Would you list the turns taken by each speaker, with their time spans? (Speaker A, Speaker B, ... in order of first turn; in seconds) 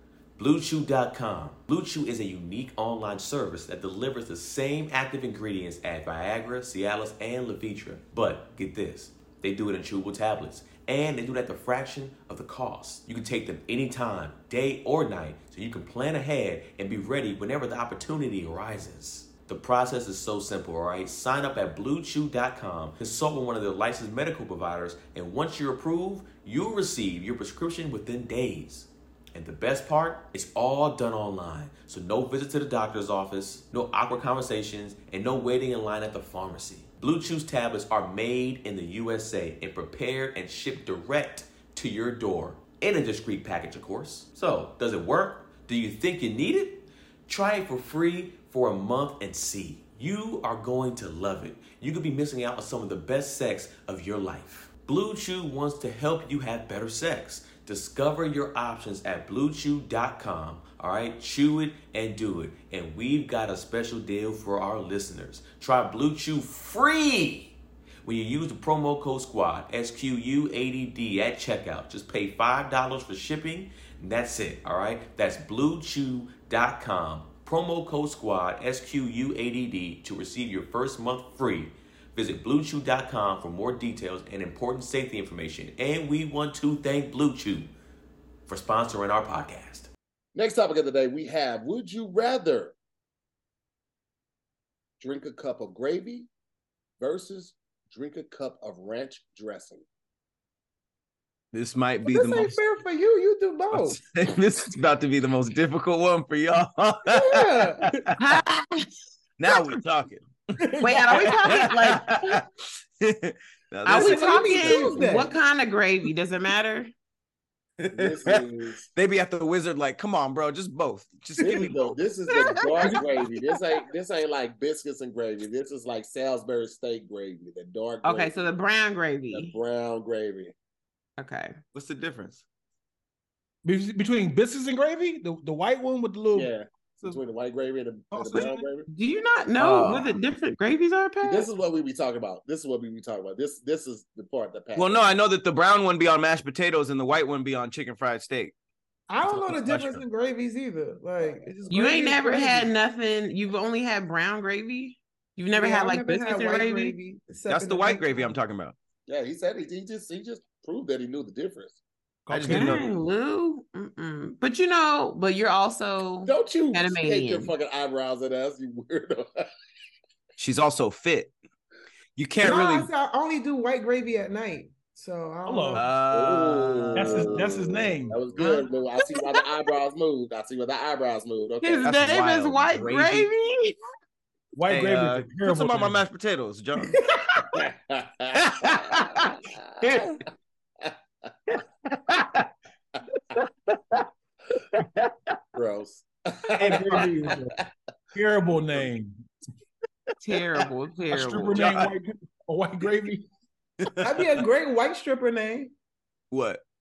Speaker A: 0.4-87.7, 88.5-89.9
Speaker B: 90.3-92.7, 95.0-96.3, 97.0-99.8, 117.9-118.8, 121.4-128.4, 129.3-130.5, 136.3-138.9, 141.2-145.0, 159.1-161.8, 166.2-169.4, 176.1-181.9, 187.5-189.2, 195.5-197.6
Speaker C: 101.5-102.6, 103.7-108.1, 109.4-110.3, 111.2-112.5, 113.0-115.3, 117.8-122.0, 131.7-132.4, 139.6-140.1, 144.7-148.5, 149.2-150.0, 157.5-158.8, 162.3-162.9, 170.4-171.3, 172.2-172.9, 175.7-177.3, 181.8-183.3, 184.7-187.0, 188.3-190.2, 191.5-192.5, 193.3-194.1, 194.7-195.3, 201.5-201.9, 203.8-204.4, 206.3-206.6
Speaker D: 102.0-104.0, 107.1-107.9, 113.8-115.3, 149.1-152.6, 155.5-158.3, 172.4-175.8, 204.0-205.7
Speaker E: 108.2-108.9, 110.8-112.1, 113.8-116.9, 122.3-123.1, 128.0-129.5, 131.2-131.6, 138.9-141.5, 151.7-156.9, 162.4-167.5, 179.2-179.4, 181.6-183.8, 200.2-201.7
Speaker F: 110.8-111.2, 133.6-137.2, 138.1-138.6, 162.2-162.9, 175.4-175.8, 176.9-178.2, 184.5-186.0, 196.6-199.3, 201.1-203.3